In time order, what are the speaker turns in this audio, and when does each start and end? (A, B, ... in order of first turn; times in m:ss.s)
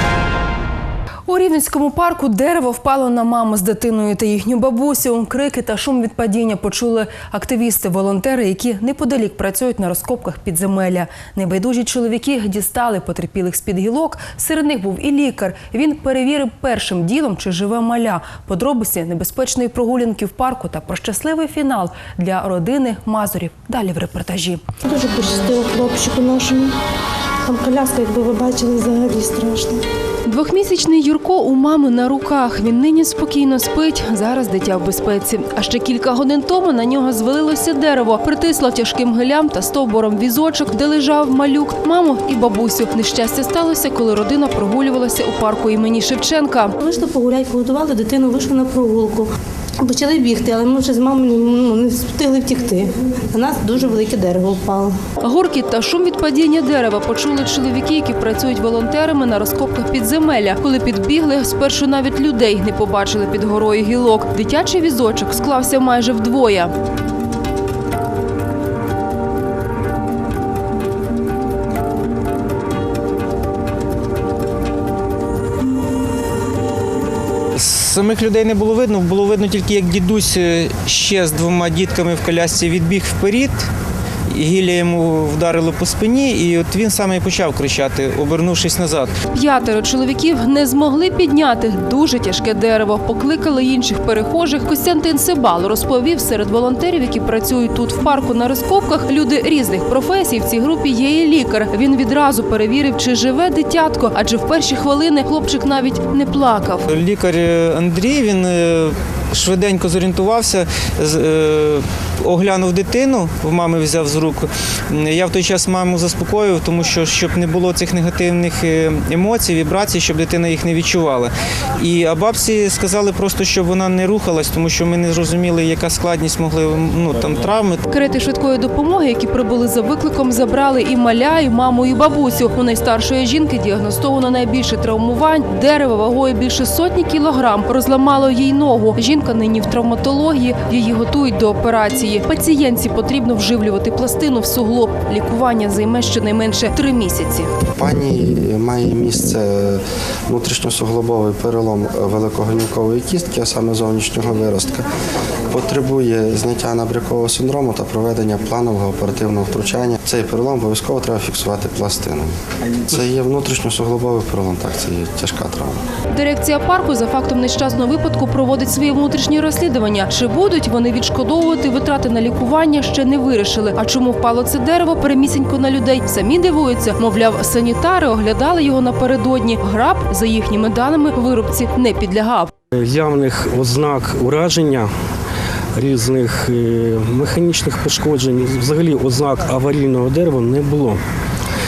0:01.3-0:24.6 A
0:24.8-0:26.7 B
0:27.5-0:29.8 B
0:30.3-0:46.7 A
0:46.8-0:49.3 B
0:49.8-0:55.0 B
0:55.2-1:06.7 A
1:17.6-1:23.6 C
1:24.3-1:29.1 C
1:29.3-1:46.9 A
1:46.9-2:07.8 C
2:07.9-2:27.5 A
2:27.8-2:34.9 D
2:35.5-2:42.3 D
2:42.9-2:45.8 D
2:46.1-3:02.5 A
3:02.8-3:04.9 E
3:05.8-3:11.0 E